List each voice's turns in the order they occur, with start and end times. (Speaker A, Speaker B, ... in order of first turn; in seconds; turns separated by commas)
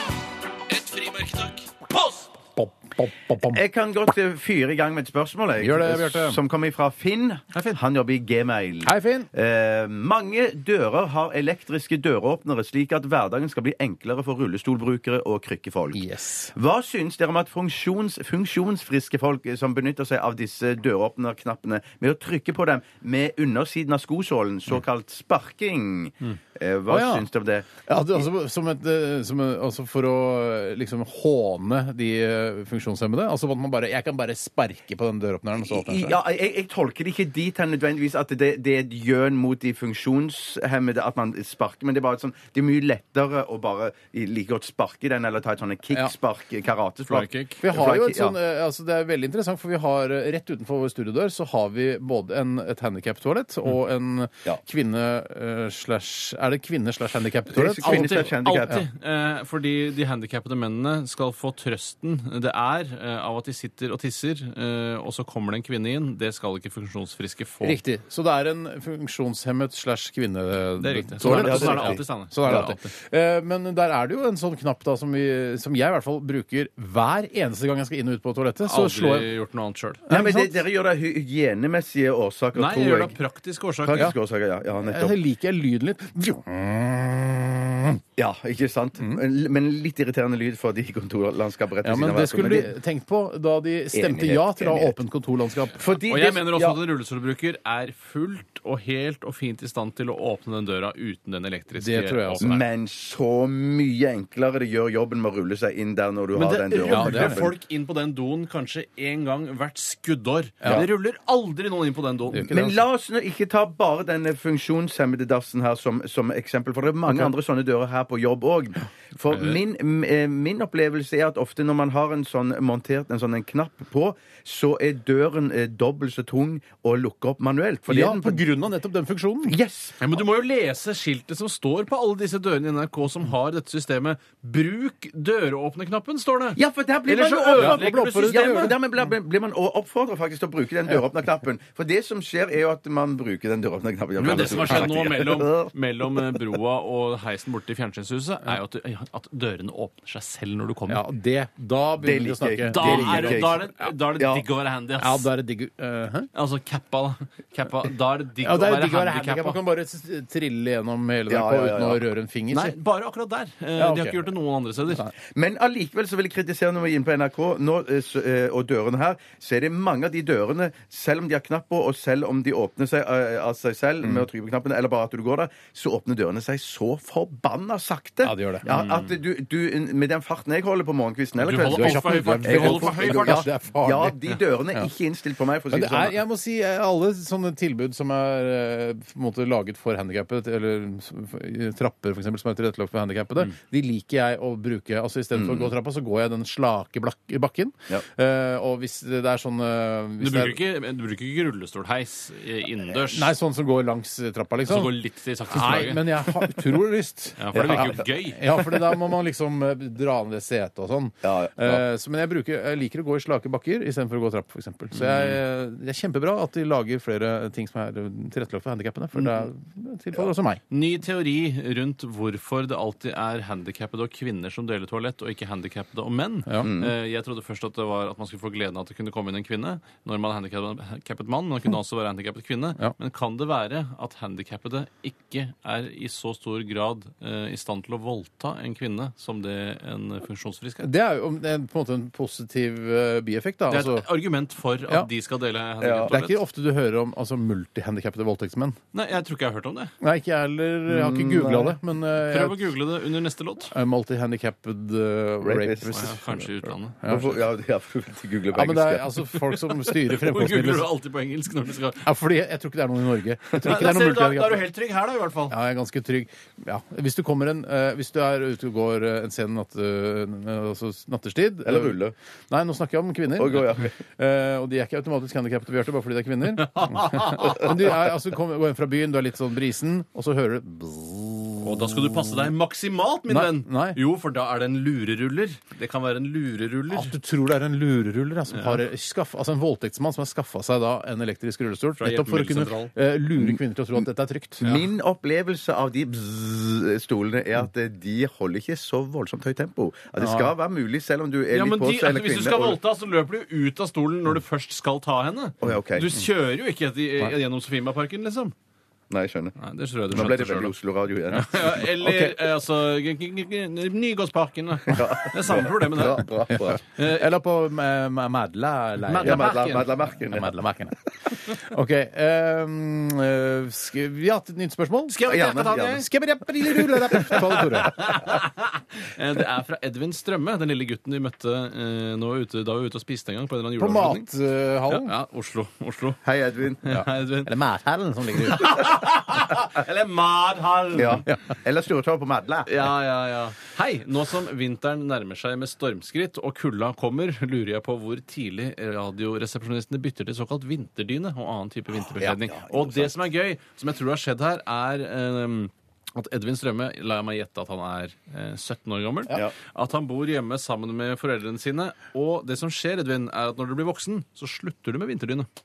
Speaker A: 0.7-2.3, Speaker B: 2.5-3.6, Speaker C: 3.4-16.0, Speaker B: 5.6-6.4, Speaker A: 7.5-7.8, Speaker B: 8.8-9.3, Speaker B: 15.9-16.5, Speaker C: 16.5-27.8, Speaker B: 26.9-27.2, Speaker B: 27.9-36.2, Speaker C: 35.6-48.4, Speaker A: 47.1-47.6, Speaker B: 47.6-58.7, Speaker C: 57.5-58.8, Speaker A: 57.8-67.8, Speaker B: 67.6-79.3, Speaker A: 70.8-72.9, Speaker C: 71.2-72.7, Speaker A: 78.7-80.0, Speaker B: 80.1-80.6, Speaker C: 80.1-83.1, Speaker A: 82.5-84.1, Speaker C: 83.8-85.2, Speaker B: 84.8-88.0, Speaker C: 88.2-92.7, Speaker B: 91.8-95.9, Speaker C: 93.9-94.9, Speaker C: 95.8-96.8, Speaker A: 96.0-102.6, Speaker B: 101.8-102.6, Speaker C: 102.4-107.5, Speaker A: 106.3-112.5, Speaker B: 106.9-107.4, Speaker B: 112.3-112.8, Speaker C: 112.5-128.4, Speaker B: 117.1-117.3, Speaker B: 127.9-129.6, Speaker C: 129.4-130.2, Speaker A: 130.0-138.7, Speaker C: 136.6-145.7, Speaker B: 137.5-138.8, Speaker A: 144.2-151.0, Speaker B: 150.9-153.6, Speaker C: 152.0-153.6, Speaker A: 152.7-155.3, Speaker C: 154.2-154.4, Speaker B: 155.0-156.3, Speaker A: 156.3-159.6, Speaker B: 158.4-162.7, Speaker C: 161.3-162.0, Speaker A: 162.5-165.1, Speaker B: 163.8-164.2, Speaker C: 165.3-186.1, Speaker B: 178.2-178.7, Speaker A: 178.7-179.2, Speaker A: 181.4-183.4, Speaker B: 181.6-184.2, Speaker B: 185.7-200.6, Speaker C: 195.3-195.7, Speaker A: 200.2-203.3, Speaker B: 203.1-205.0, Speaker A: 204.7-206.0, Speaker B: 205.5-220.6, Speaker A: 207.4-208.4, Speaker C: 207.5-207.9, Speaker C: 211.2-211.8, Speaker C: 219.2-219.5, Speaker A: 220.7-240.9, Speaker C: 226.6-226.9, Speaker B: 240.8-244.1, Speaker A: 243.7-246.4, Speaker C: 245.8-246.1, Speaker B: 246.1-248.8, Speaker A: 248.9-249.9, Speaker B: 250.0-252.7, Speaker C: 250.9-251.7, Speaker A: 252.2-253.7, Speaker B: 253.7-256.5, Speaker C: 255.4-255.9, Speaker A: 255.9-257.0, Speaker C: 257.1-259.2, Speaker B: 258.5-260.9, Speaker A: 259.5-262.1, Speaker B: 262.0-264.6, Speaker A: 263.6-265.6, Speaker B: 265.5-272.0, Speaker C: 271.6-272.1, Speaker B: 272.5-282.5, Speaker C: 273.4-273.9, Speaker A: 276.6-277.7, Speaker A: 281.6-287.1, Speaker B: 283.3-284.0, Speaker B: 286.9-294.7, Speaker A: 288.5-288.8, Speaker A: 292.0-292.9, Speaker C: 294.6-302.8, Speaker B: 300.2-300.5, Speaker A: 301.5-308.5, Speaker C: 305.6-306.1, Speaker C: 309.1-309.6, Speaker A: 309.6-310.7, Speaker C: 310.1-312.1, Speaker A: 311.3-316.3, Speaker C: 314.9-316.8, Speaker B: 316.5-325.2, Speaker A: 316.9-317.3, Speaker A: 319.1-319.9, Speaker C: 319.2-320.5, Speaker A: 325.1-326.1, Speaker C: 325.2-326.0, Speaker B: 325.9-328.2, Speaker C: 326.7-327.3, Speaker A: 327.2-334.3, Speaker B: 333.8-335.1, Speaker A: 334.9-336.2, Speaker C: 336.2-336.8, Speaker A: 336.8-337.5, Speaker B: 336.9-338.8, Speaker A: 338.4-341.2, Speaker C: 340.9-342.7, Speaker A: 342.7-365.5, Speaker C: 352.2-353.1